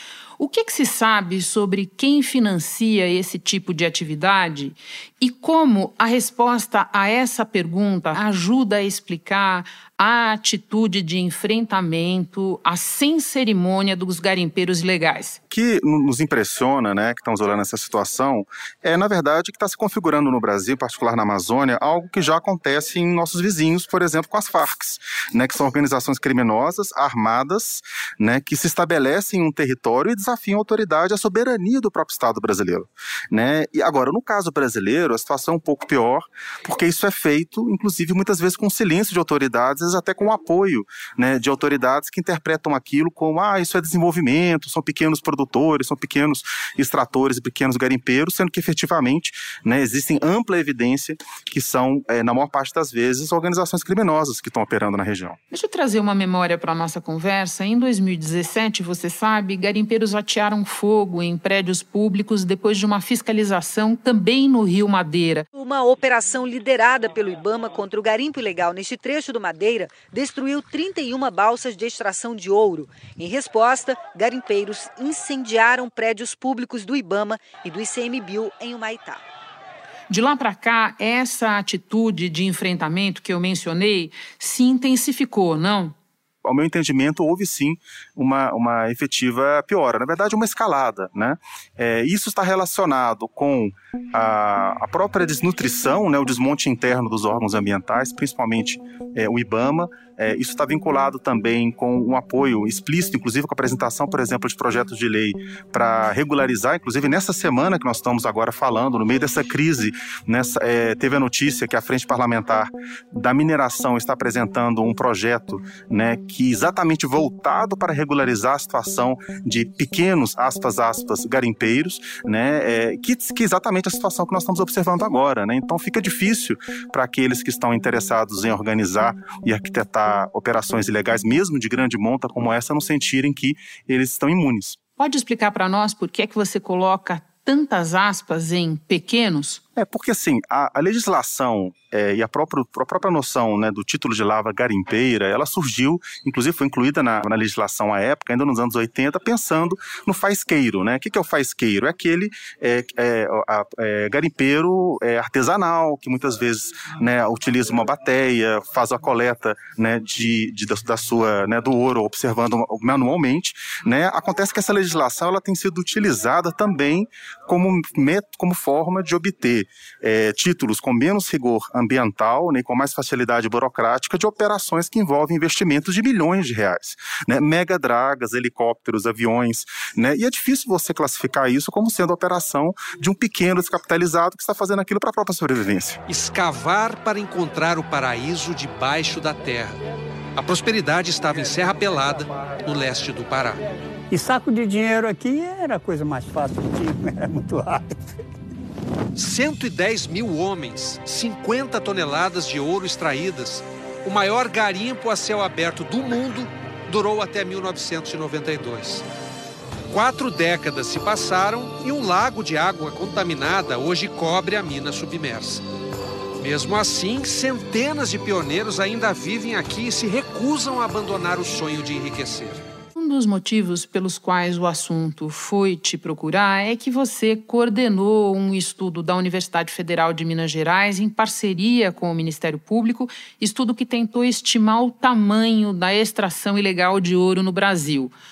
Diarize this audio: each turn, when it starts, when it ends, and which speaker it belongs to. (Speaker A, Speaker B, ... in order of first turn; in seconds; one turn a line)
Speaker A: 0.4-15.4
Speaker B: 15.5-55.4
Speaker A: 55.5-65.5
Speaker C: 65.5-79.2
Speaker A: 80.1-85.9
Speaker B: 86.4-134.8
Speaker A: 135.0-139.6
Speaker B: 139.8-186.0
Speaker D: 186.1-189.8
Speaker D: 190.3-193.6
Speaker E: 194.1-198.0
Speaker D: 199.1-209.0
Speaker D: 209.9-215.6
Speaker D: 216.4-222.6
Speaker A: 222.9-238.1